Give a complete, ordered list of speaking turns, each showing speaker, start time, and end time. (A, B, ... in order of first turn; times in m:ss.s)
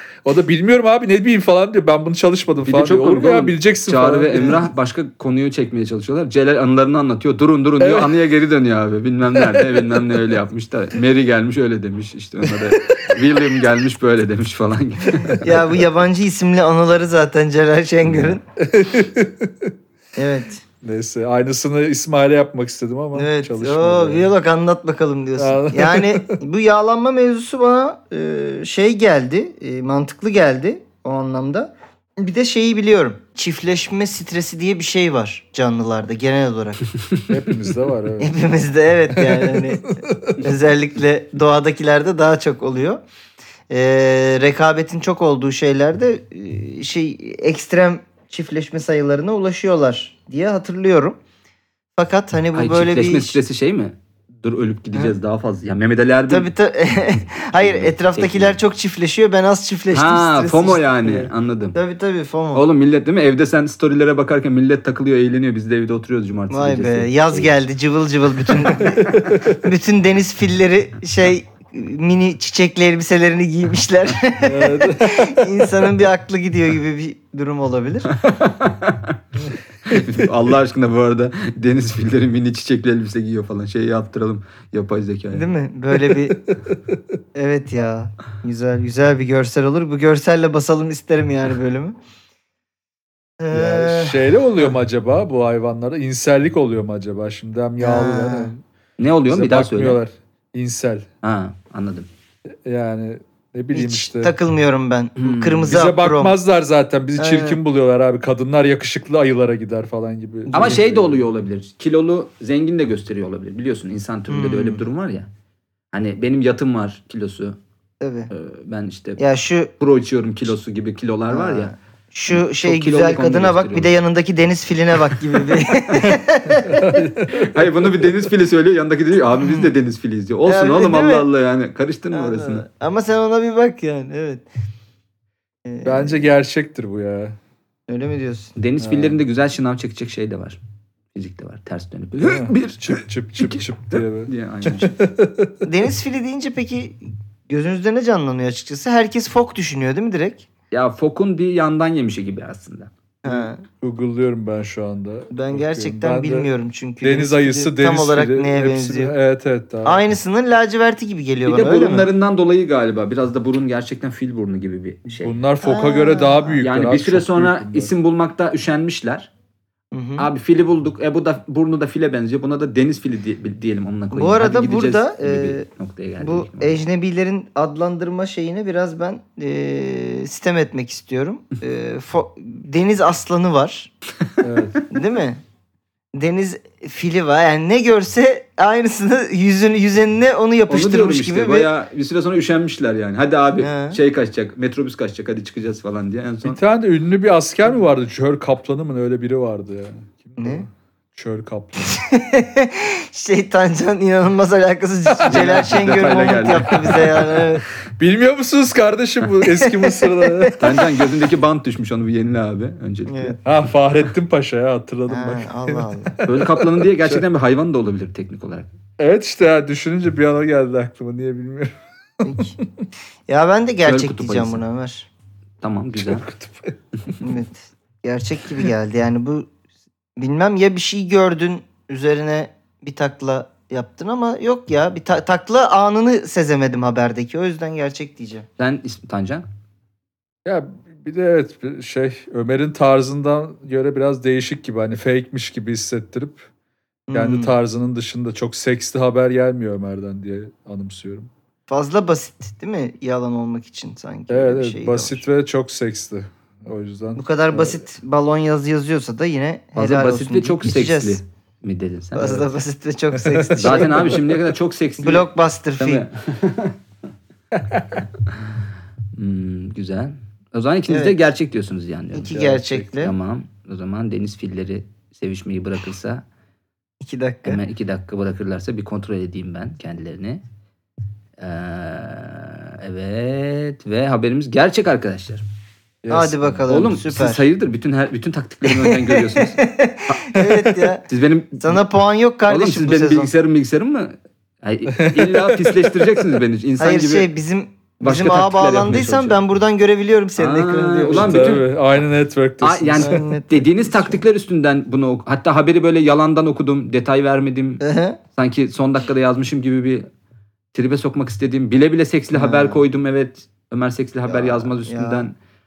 0:00.2-0:04.6 A
0:02.6-0:15.7 B
0:07.8-0:08.1 A
0:09.3-0:10.2 A
0:12.4-0:13.3 A
0:15.2-0:18.4 C
0:18.1-0:18.3 B
0:18.6-0:19.7 A
0:20.2-0:20.6 C
0:20.8-0:24.3 A
0:23.2-0:36.9 C
0:25.4-0:26.4 A
0:37.3-0:38.3 A
0:38.2-0:43.0 C
0:39.2-0:40.4 A
0:43.7-0:51.2 C
0:52.0-0:53.4 C
0:52.6-0:56.5 B
0:56.3-1:00.9 C
0:57.6-0:58.6 B
0:59.9-1:01.8 B
1:01.7-1:02.6 C
1:02.5-1:07.5 B
1:06.5-1:18.1 C
1:08.7-1:09.6 A
1:14.4-1:15.9 A
1:18.1-1:19.2 B
1:19.4-1:20.3 A
1:19.9-1:25.5 B
1:25.3-1:26.4 C
1:25.9-1:27.2 A
1:27.4-1:32.0 C
1:33.4-1:34.2 C
1:33.5-1:38.6 A
1:37.8-1:38.5 C
1:39.0-1:40.0 B
1:39.3-1:41.1 A
1:41.2-1:42.1 B
1:42.6-1:44.3 A
1:43.7-1:46.3 C
1:45.2-1:45.7 B
1:45.7-1:51.2 A
1:47.2-1:47.6 C
1:50.5-1:50.8 C
1:50.5-1:55.3 B
1:54.3-1:54.8 C
1:55.9-1:57.6 B
1:58.0-1:58.3 C
1:58.3-1:59.2 B
1:59.2-1:59.7 C
1:59.8-2:01.7 B
2:01.3-2:06.9 C
2:02.3-2:03.9 B
2:05.5-2:06.2 B
2:06.6-2:07.7 A
2:07.3-2:12.6 B
2:09.4-2:09.7 C
2:10.5-2:11.3 C
2:12.1-2:14.5 C
2:15.6-2:16.3 C
2:15.8-2:17.4 A
2:17.9-2:18.5 C
2:18.6-2:20.6 B
2:18.8-2:19.2 A
2:21.1-2:25.0 B
2:22.2-2:25.6 A
2:25.6-2:30.4 C
2:30.7-2:32.9 B
2:33.2-2:33.6 C
2:33.3-2:36.5 A
2:35.3-2:39.1 C
2:37.0-2:40.0 A
2:39.8-2:42.1 C
2:41.4-2:45.4 B
2:45.2-2:47.9 A
2:45.6-2:46.6 C
2:46.6-2:49.3 B
2:49.9-2:50.3 C
2:50.2-2:56.8 B
2:54.1-2:55.6 C
2:56.2-3:03.9 C
3:04.4-3:04.8 A
3:04.9-3:05.4 C
3:06.1-3:11.7 C
3:10.7-3:16.6 B
3:13.6-3:14.0 C
3:16.4-3:22.0 A
3:20.4-3:20.7 C
3:21.8-3:27.6 C
3:25.2-3:25.6 A
3:25.2-3:27.2 B
3:28.0-3:30.6 A
3:29.6-3:30.6 C
3:30.6-3:33.4 B
3:33.1-3:33.4 C
3:33.4-3:37.2 A
3:35.1-3:36.2 C
3:36.2-3:38.7 B
3:39.0-3:41.8 A
3:42.2-3:42.6 C
3:42.3-3:42.8 A
3:43.3-3:45.1 C
3:43.8-3:44.6 B
3:45.6-3:46.3 B
3:46.0-3:46.8 A
3:47.2-3:49.5 C
3:50.2-3:58.5 C
3:58.6-3:59.5 B
4:00.4-4:06.5 A
4:07.1-4:07.6 C
4:07.1-4:11.3 A
4:11.7-4:15.2 C
4:14.3-4:17.8 A
4:17.2-4:21.2 C
4:19.8-4:22.5 B
4:22.2-4:24.2 C
4:23.1-4:24.3 A
4:23.6-4:25.3 B
4:25.0-4:26.0 C
4:25.8-4:26.8 B
4:27.5-4:28.0 A
4:29.2-4:36.2 B
4:30.9-4:31.2 C
4:32.1-4:33.1 C
4:37.0-4:37.6 C
4:37.5-4:40.4 B
4:41.4-4:45.4 B
4:46.0-4:46.6 A
4:46.1-4:47.4 C
4:46.7-4:51.8 B
4:48.7-4:51.0 C
4:51.6-4:53.3 C
4:52.5-4:57.3 B
4:54.9-4:56.4 A
4:56.8-5:01.6 C
4:58.0-4:59.4 B
5:00.4-5:01.7 B
5:01.1-5:03.2 A
5:02.6-5:07.8 B
5:03.0-5:04.2 C
5:07.8-5:08.2 C
5:08.4-5:10.1 B
5:10.7-5:15.4 B
5:12.3-5:12.8 C
5:14.3-5:15.3 C